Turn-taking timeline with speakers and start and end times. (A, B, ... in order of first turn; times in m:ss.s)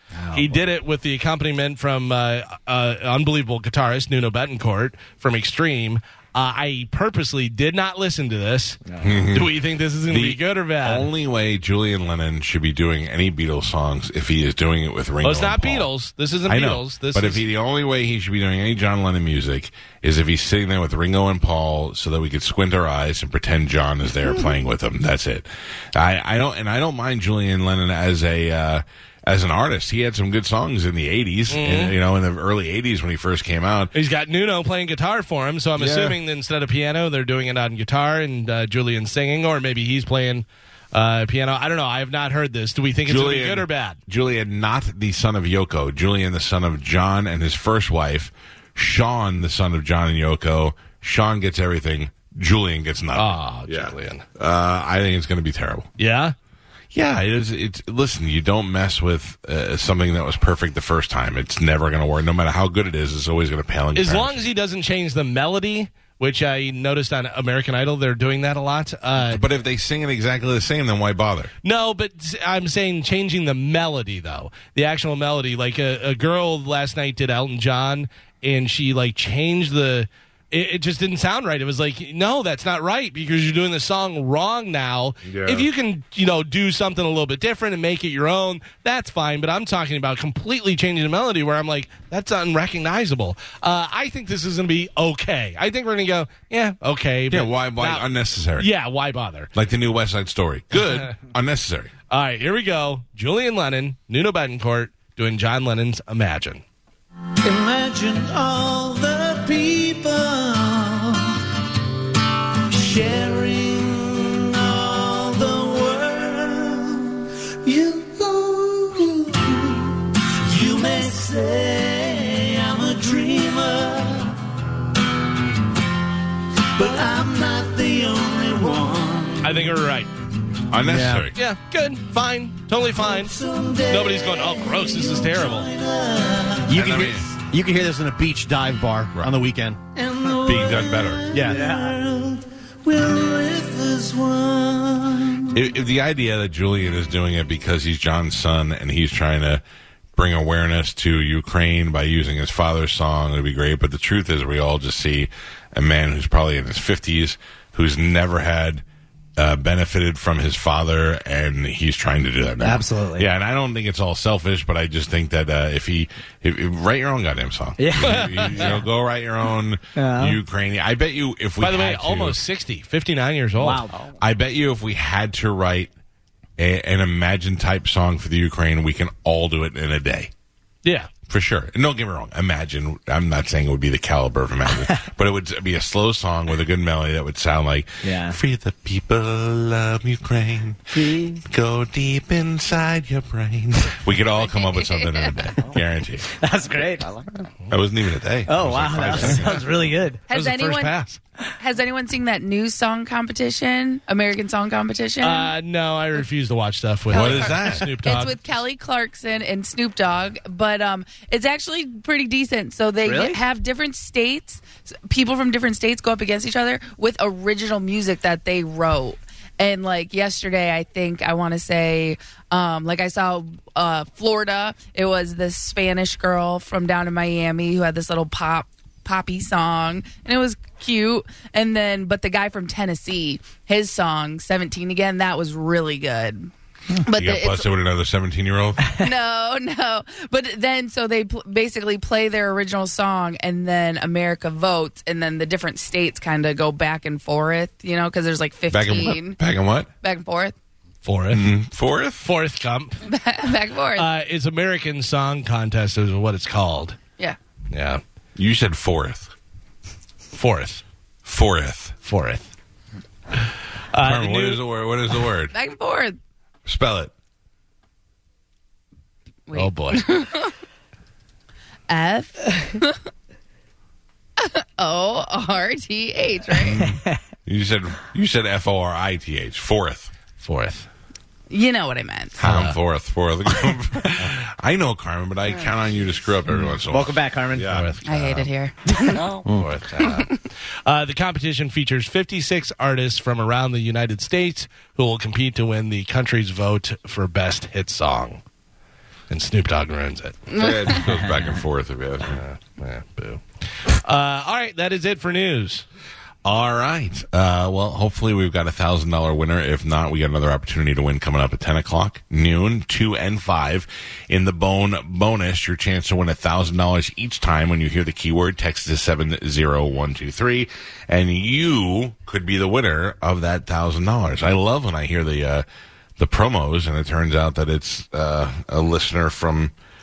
0:00.1-0:00.6 A
0:00.3-0:11.1 B
0:09.0-0:09.5 C
0:10.1-0:15.9 C
0:15.2-0:17.4 B
0:16.5-0:33.9 C
0:31.5-0:32.0 B
0:33.9-0:44.0 B
0:35.8-0:36.2 C
0:43.0-0:55.9 C
0:53.1-0:54.2 B
0:56.0-0:56.3 B
0:56.9-1:04.4 C
1:03.9-1:09.4 B
1:09.2-1:11.5 C
1:11.6-1:39.5 B
1:25.2-1:25.7 C
1:37.3-1:38.7 C
1:39.5-1:41.9 C
1:40.7-1:41.1 B
1:42.1-1:46.6 B
1:47.4-1:51.4 D
1:52.7-2:04.4 D
2:06.7-2:09.7 D
2:09.4-2:10.1 B
2:10.7-2:11.4 C
2:10.8-2:11.3 E
2:11.4-2:13.3 B
2:12.9-2:16.8 D
2:13.9-2:15.7 B
2:16.6-2:19.8 E
2:16.7-2:17.3 C
2:19.9-2:25.6 D
2:20.4-2:21.3 C
2:21.3-2:21.6 E
2:21.4-2:22.0 A
2:25.5-2:29.6 C
2:30.2-2:38.8 C
2:39.4-2:52.4 C
2:42.6-2:43.3 A
2:47.8-2:48.8 A
2:48.0-2:48.8 B
2:50.0-2:50.4 A
2:51.6-2:53.8 B
2:53.6-2:54.1 A
2:54.2-2:55.9 C
2:56.6-3:00.3 C
3:00.8-3:01.1 B
3:01.3-3:16.3 C
3:08.0-3:08.4 A
3:10.9-3:11.4 A
3:14.3-3:15.4 F
3:16.4-3:17.2 A
3:17.7-3:19.6 C
3:18.5-3:20.2 A
3:20.3-3:21.0 F
3:20.3-3:21.2 B
3:21.6-3:25.5 F
3:25.2-3:28.3 B
3:27.1-3:56.5 F
3:27.1-3:27.9 C
3:33.0-3:33.4 A
3:57.0-3:57.6 F
3:57.1-3:58.9 C
3:59.0-4:09.4 F
4:08.7-4:09.9 C
4:10.0-4:10.5 F
4:11.0-4:11.4 B
4:11.3-4:12.3 C
4:12.2-4:13.0 B
4:13.0-4:14.1 F
4:14.0-4:17.0 B
4:17.7-4:18.0 B
4:18.4-4:19.3 C
4:20.3-4:20.8 B
4:21.2-4:21.9 C
4:22.0-4:22.5 B
4:23.9-4:24.6 B
4:24.0-4:25.5 C
4:25.5-4:26.2 F
4:26.6-4:27.1 C
4:29.5-4:30.5 F
4:29.5-4:30.0 B
4:31.9-4:33.0 F
4:34.4-4:36.8 F
4:36.5-4:40.1 C
4:36.9-4:37.2 A
4:40.4-4:40.9 B
4:41.5-4:42.4 F
4:42.4-4:48.5 C
4:42.4-4:42.8 B
4:46.9-4:47.7 A
4:47.7-4:48.0 B
4:48.0-4:49.3 F
4:49.4-4:49.7 E
4:49.4-4:50.3 B
4:50.0-4:50.4 F
4:50.8-4:58.4 B
4:59.3-5:00.4 B
5:00.5-5:01.0 F
5:00.5-5:02.4 C
5:02.4-5:05.8 B
5:06.4-5:25.6 C
5:26.2-5:29.7 C